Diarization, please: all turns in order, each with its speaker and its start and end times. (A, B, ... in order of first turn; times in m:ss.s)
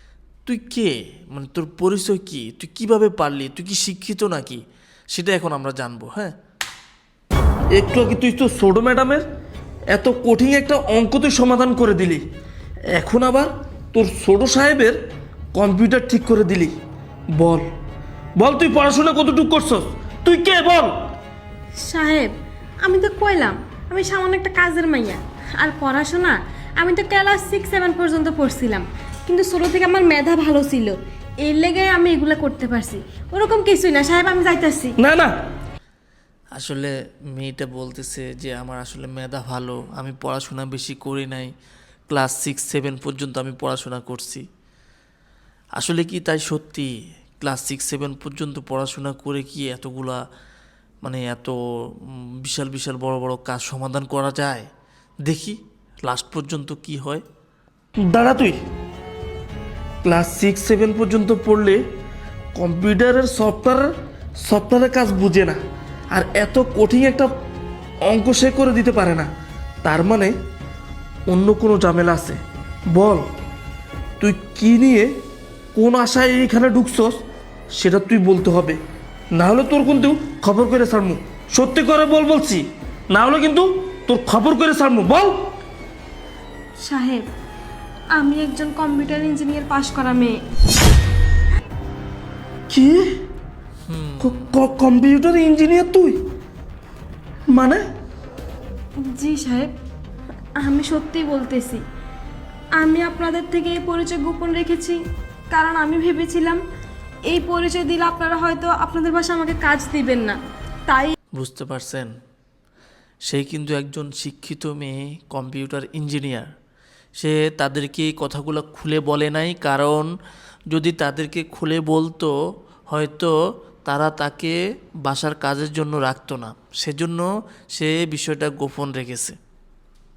0:00.4-0:06.3 A
0:07.7-0:09.2 B
0:09.9-0:12.2 B
0:12.9-0:15.0 B
0:15.5-0:16.7 B
0:17.4-0:17.6 B
0:18.4-0:20.9 B
0:21.8-0:22.3 C
0:22.8-0:35.0 C
0:35.0-0:35.3 B
0:36.6-0:41.5 A
0:42.1-0:44.4 A
0:45.8-0:50.2 A
0:51.0-0:51.6 A
0:52.1-0:54.7 A
0:55.2-0:57.2 A
0:58.0-0:58.6 B
1:00.0-1:01.8 B
1:02.5-1:03.9 B
1:04.4-1:05.6 B
1:06.1-1:07.3 B
1:08.1-1:09.3 B
1:09.8-1:10.3 B
1:11.3-1:12.4 B
1:12.9-1:13.2 B
1:14.2-1:15.1 B
1:15.8-1:17.1 B
1:17.7-1:18.8 B
1:19.3-1:25.4 B
1:26.8-1:27.2 C
1:28.1-1:30.4 C
1:32.7-1:33.1 B
1:33.9-1:34.4 A
1:34.2-1:36.2 B
1:37.5-1:37.8 B
1:39.1-1:39.7 C
1:40.6-1:41.8 C
1:42.8-1:45.0 C
1:45.5-1:46.6 C
1:47.3-1:51.1 C
1:51.3-1:52.1 A
1:53.2-1:56.5 A
1:57.2-2:00.1 A
2:00.7-2:02.3 A
2:02.9-2:03.3 A
2:03.8-2:09.4 A